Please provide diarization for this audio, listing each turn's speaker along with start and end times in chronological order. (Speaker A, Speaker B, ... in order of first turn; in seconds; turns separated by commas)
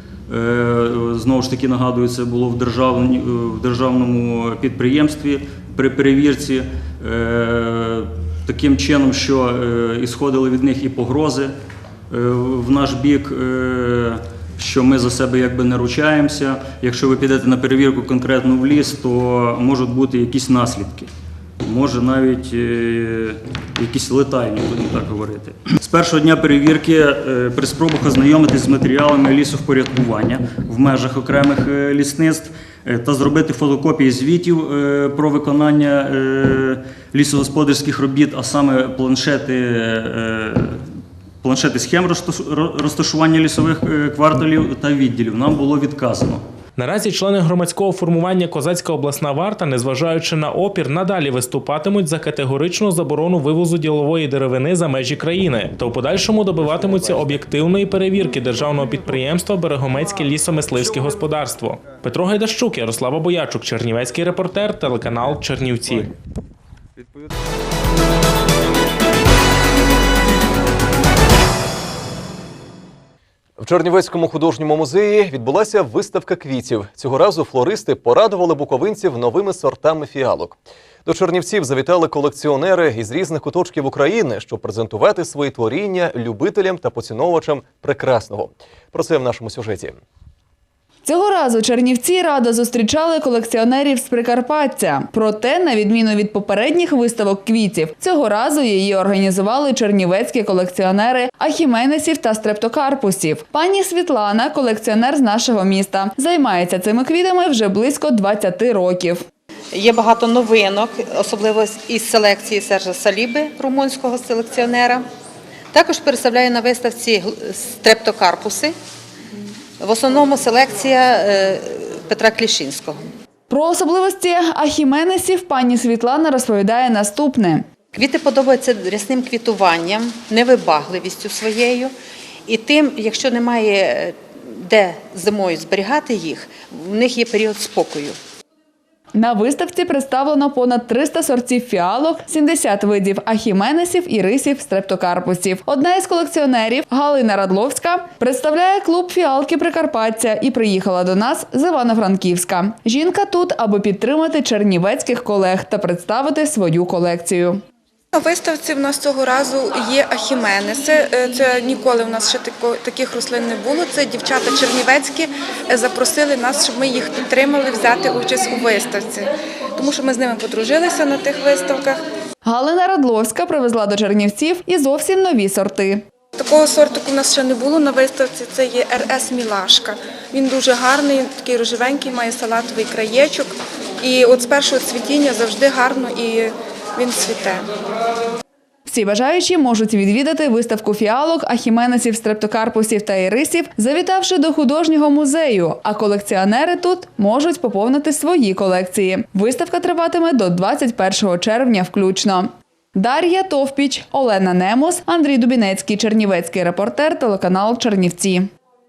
Speaker A: 0.3-11.6, Speaker A: 12.1-21.1, Speaker A: 21.6-40.9, Speaker A: 41.4-46.4, Speaker B: 46.8-66.1, Speaker C: 73.6-90.0, Speaker D: 91.0-109.2, Speaker E: 109.7-115.0, Speaker E: 115.7-118.8, Speaker E: 119.8-123.0, Speaker D: 123.5-127.7, Speaker E: 127.9-131.9, Speaker E: 132.5-138.2, Speaker D: 139.1-157.6, Speaker F: 158.1-172.0, Speaker D: 172.4-176.1, Speaker F: 176.4-187.7, Speaker D: 188.9-208.5